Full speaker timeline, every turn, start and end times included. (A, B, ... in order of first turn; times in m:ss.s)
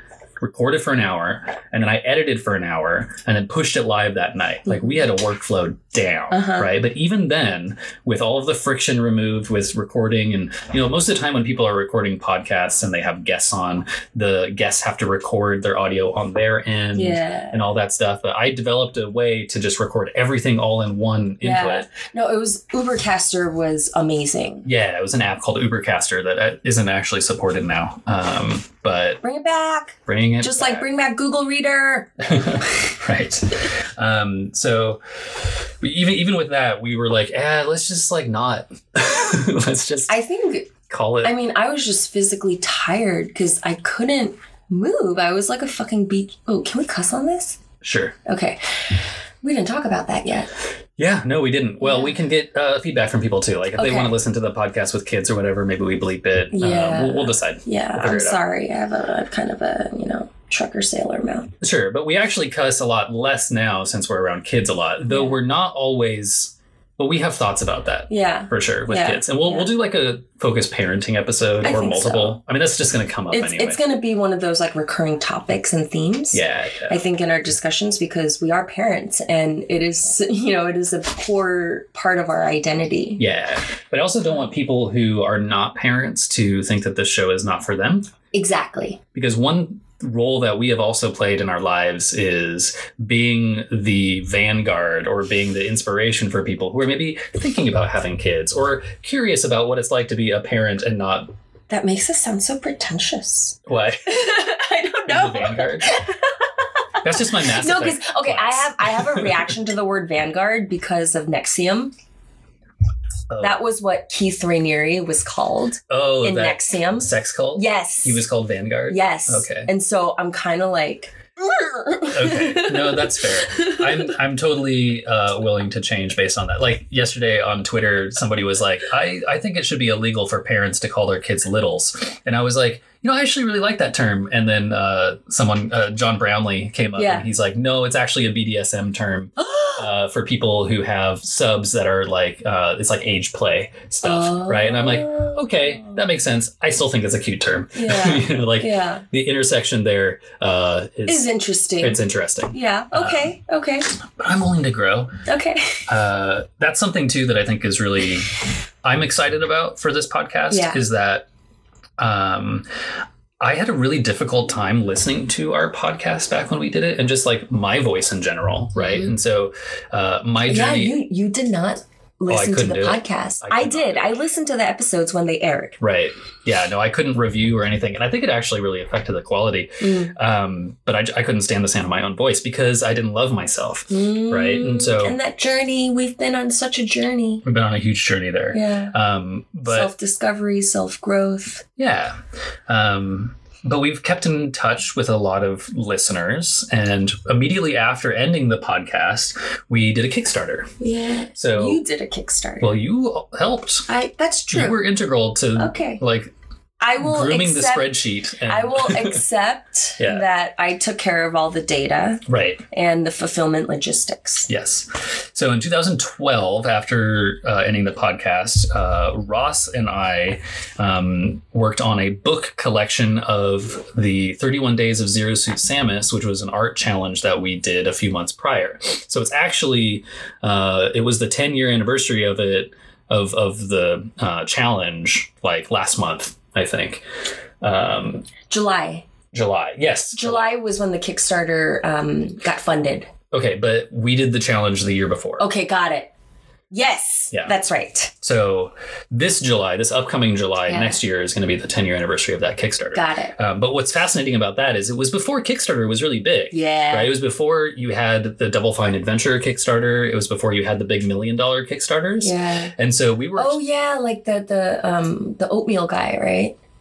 0:00.4-0:21.9 A
0:04.7-0:05.0 B
0:06.3-0:06.7 B
0:16.9-0:17.6 B
0:21.4-0:24.7 B
0:24.6-0:29.2 A
0:29.2-0:32.1 B
0:30.0-0:30.8 A
0:32.2-0:35.0 A
0:35.8-0:40.2 A
0:40.1-0:47.6 B
0:40.9-0:41.3 A
0:47.8-0:48.2 A
0:48.2-0:50.5 B
0:51.0-0:58.4 A
0:51.8-0:52.2 B
0:53.8-0:54.1 B
0:56.5-1:01.5 B
1:01.6-1:13.8 A
1:05.1-1:05.4 B
1:08.1-1:09.7 B
1:11.6-1:12.4 B
1:13.3-1:23.2 B
1:16.3-1:17.0 A
1:23.2-1:28.1 A
1:28.3-1:29.0 B
1:29.1-1:41.3 A
1:41.7-1:51.9 B
1:43.6-1:44.2 A
1:45.1-1:46.0 A
1:47.0-1:49.5 A
1:53.3-1:53.6 A
1:53.4-1:58.2 B
1:55.9-1:59.7 A
1:58.9-2:04.1 B
2:02.0-2:31.3 A
2:17.0-2:17.3 B
2:19.4-2:19.8 B
2:24.0-2:26.0 B
2:27.7-2:29.0 B
2:31.1-2:32.0 B
2:31.8-2:33.3 A
2:32.5-2:33.9 B
2:34.2-2:35.2 A
2:35.2-2:35.8 B
2:35.9-2:41.3 A
2:40.5-2:40.8 B
2:42.0-2:42.6 A
2:43.4-2:51.0 A
2:48.8-2:49.1 B
2:50.5-2:55.8 B
2:52.3-2:54.2 A
2:55.8-3:05.2 A
2:59.8-3:00.1 B
3:03.9-3:07.4 B
3:07.4-3:09.9 A
3:08.5-3:08.9 B
3:09.6-3:11.6 B
3:11.8-3:12.2 A
3:12.7-3:20.8 A
3:20.8-3:22.7 B
3:21.3-3:21.8 A
3:22.6-3:23.9 A
3:23.9-3:24.8 B
3:24.5-3:26.3 A
3:25.6-3:26.0 B
3:26.8-3:34.5 B
3:27.0-3:29.2 A
3:30.0-3:30.2 A
3:32.3-3:32.6 A
3:34.5-3:57.0 A
3:57.6-3:58.3 A
3:58.5-3:59.0 B
3:59.3-4:00.5 A
4:00.1-4:03.1 B
4:03.3-4:05.5 A
4:05.4-4:06.1 B
4:06.7-4:08.1 B
4:08.2-4:23.6 A
4:10.7-4:11.0 B
4:12.9-4:13.4 B
4:16.5-4:17.1 B
4:22.2-4:22.7 B
4:23.4-4:26.6 B